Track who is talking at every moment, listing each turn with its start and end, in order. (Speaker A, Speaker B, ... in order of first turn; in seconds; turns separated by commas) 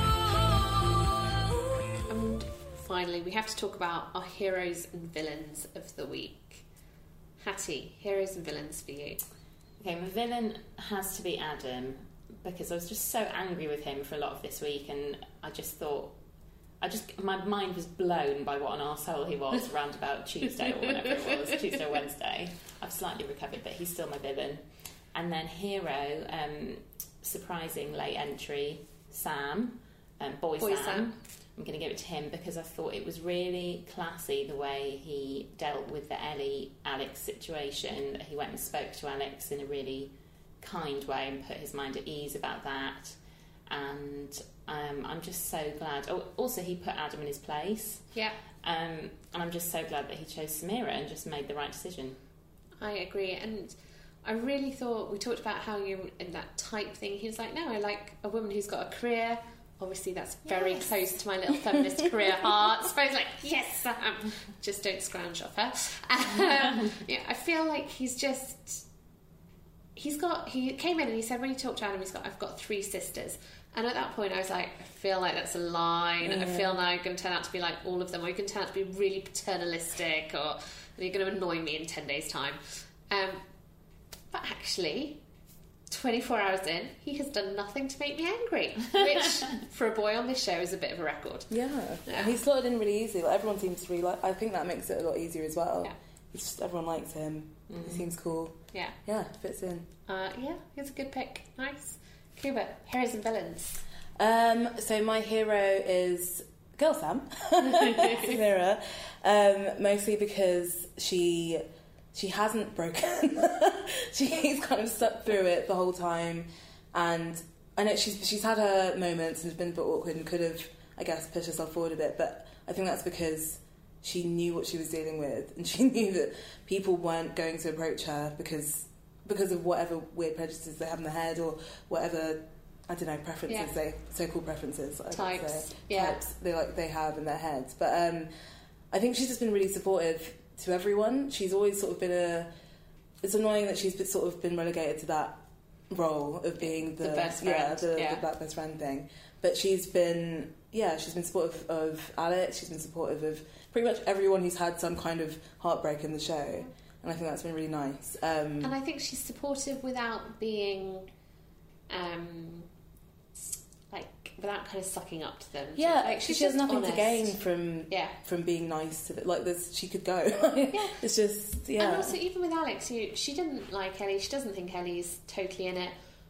Speaker A: 2.1-6.7, Speaker A: 7.4-9.2, Speaker B: 9.8-16.2, Speaker B: 16.8-52.2, Speaker A: 30.6-31.1, Speaker A: 52.8-68.8, Speaker B: 60.5-60.9, Speaker A: 70.0-83.4, Speaker C: 76.2-76.8, Speaker A: 84.3-85.2, Speaker A: 85.9-91.5, Speaker C: 91.5-99.9, Speaker A: 92.0-92.3, Speaker B: 97.7-98.0, Speaker A: 100.1-103.8, Speaker C: 104.2-138.3, Speaker A: 107.8-108.3, Speaker A: 133.5-133.7, Speaker A: 135.1-136.2, Speaker C: 138.9-142.5, Speaker C: 143.2-158.8, Speaker A: 146.6-148.2, Speaker A: 158.6-161.1, Speaker A: 161.9-162.7, Speaker A: 163.9-167.4, Speaker C: 165.8-172.2, Speaker A: 167.9-168.1, Speaker A: 171.8-176.0